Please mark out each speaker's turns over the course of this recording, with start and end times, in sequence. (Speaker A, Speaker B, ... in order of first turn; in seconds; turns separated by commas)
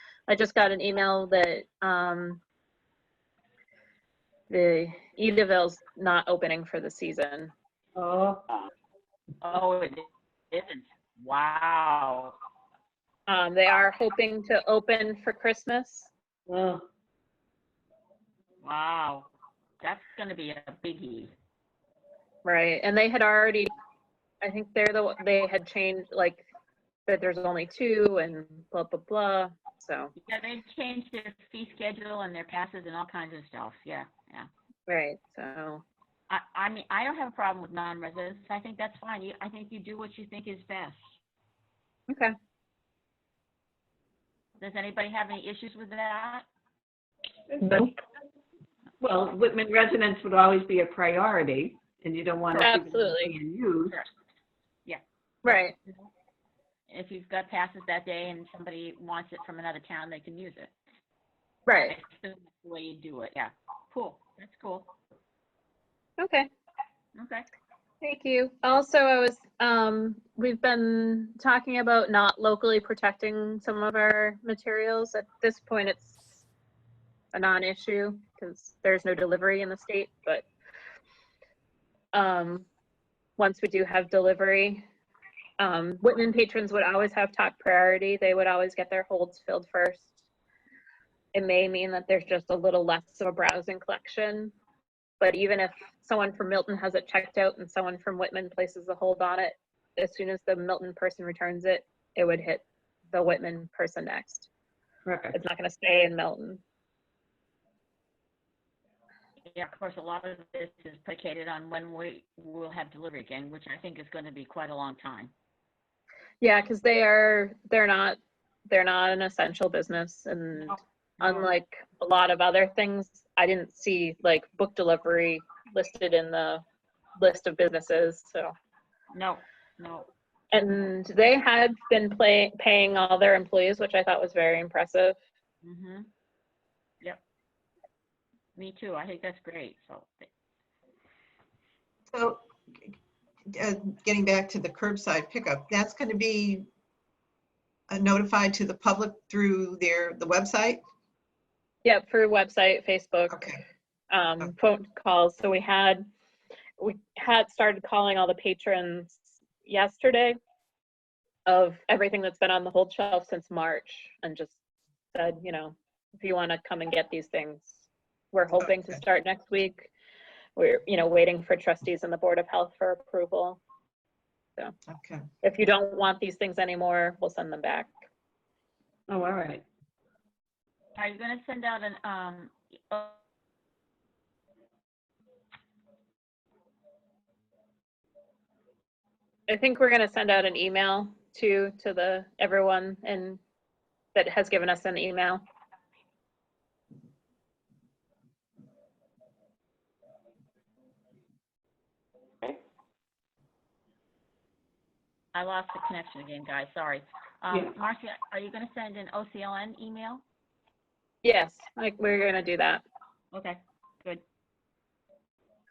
Speaker A: 0.3-2.4, Speaker A: 4.5-7.5, Speaker B: 8.0-8.4, Speaker C: 9.4-12.3, Speaker A: 13.3-16.1, Speaker B: 16.5-16.8, Speaker C: 18.6-19.3, Speaker C: 19.8-21.3, Speaker A: 22.4-23.7, Speaker A: 24.4-26.4, Speaker A: 27.1-30.1, Speaker C: 30.2-34.5, Speaker A: 34.9-35.8, Speaker C: 36.3-41.1, Speaker A: 42.1-42.3, Speaker C: 44.6-46.5, Speaker B: 47.6-47.9, Speaker B: 49.0-53.9, Speaker C: 52.5-52.9, Speaker A: 52.6-53.3, Speaker C: 54.8-56.1, Speaker A: 55.4-55.7, Speaker C: 56.9-60.7, Speaker A: 61.7-61.9, Speaker C: 61.7-64.9, Speaker A: 66.2-66.5, Speaker C: 67.2-67.5, Speaker A: 68.0-76.4, Speaker A: 77.3-80.5, Speaker A: 82.1-82.7, Speaker A: 83.4-84.8, Speaker A: 85.6-90.2, Speaker A: 91.3-94.5, Speaker A: 95.2-104.5, Speaker B: 105.0-105.3, Speaker A: 105.3-106.6, Speaker C: 109.5-115.3, Speaker A: 116.4-126.6, Speaker C: 120.6-121.5, Speaker A: 127.2-128.5, Speaker C: 129.1-130.1, Speaker A: 130.5-135.2, Speaker C: 135.6-136.1, Speaker C: 138.6-140.3, Speaker D: 142.1-142.9, Speaker D: 143.5-146.7, Speaker D: 147.9-150.8, Speaker A: 151.8-153.4, Speaker D: 153.3-153.6, Speaker A: 154.1-156.1, Speaker A: 156.8-160.4, Speaker A: 161.5-164.6, Speaker A: 165.1-169.9, Speaker D: 168.5-169.0, Speaker A: 170.6-173.6, Speaker D: 174.9-175.2, Speaker A: 175.4-177.9, Speaker B: 179.1-179.6, Speaker C: 180.9-183.2, Speaker A: 189.5-193.4, Speaker A: 194.1-195.4, Speaker C: 205.3-210.2, Speaker A: 211.2-212.8, Speaker C: 213.3-214.2